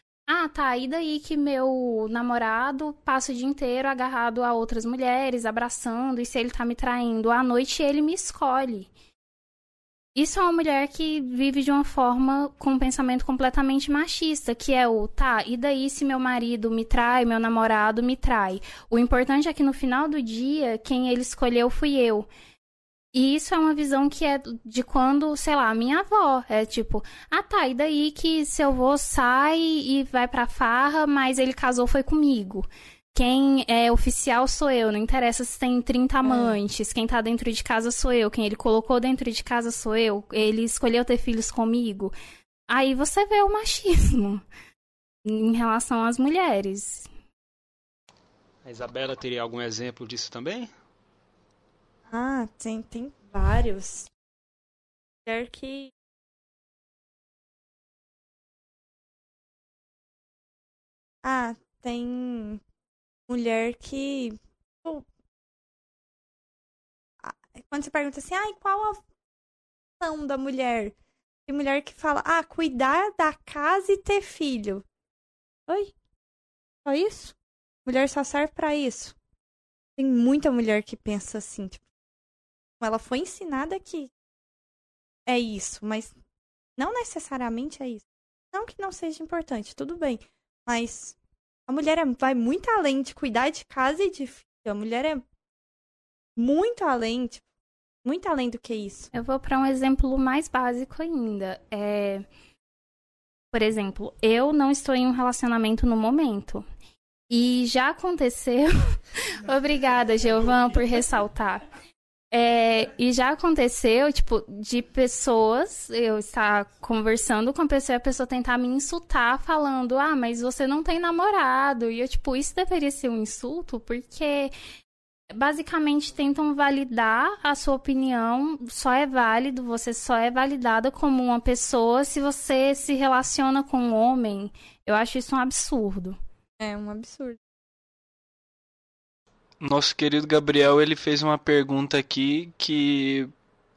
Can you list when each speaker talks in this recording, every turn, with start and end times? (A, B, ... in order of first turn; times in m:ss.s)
0:00.3-0:08.9 A
0:10.1-0:22.3 A
0:23.1-0:42.1 A
0:36.2-0:36.6 B
0:42.7-0:44.4 A
0:45.2-0:47.1 A
0:48.6-0:50.7 C
0:52.1-0:54.1 B
0:55.2-0:55.9 B
1:01.2-1:02.6 B
1:03.3-1:05.0 B
1:07.2-1:09.0 B
1:10.0-1:10.9 B
1:11.5-1:14.8 B
1:15.7-1:15.9 B
1:16.8-1:19.2 B
1:20.0-1:21.8 B
1:22.8-1:24.1 B
1:25.3-1:26.1 B
1:26.8-1:31.2 B
1:31.7-1:35.2 B
1:36.4-1:37.4 B
1:38.0-1:39.1 B
1:39.1-1:42.2 A
1:43.5-1:46.6 A
1:47.3-1:51.6 A
1:52.3-2:04.5 A
2:05.3-2:16.2 A
2:16.6-2:17.4 B
2:19.6-2:23.3 D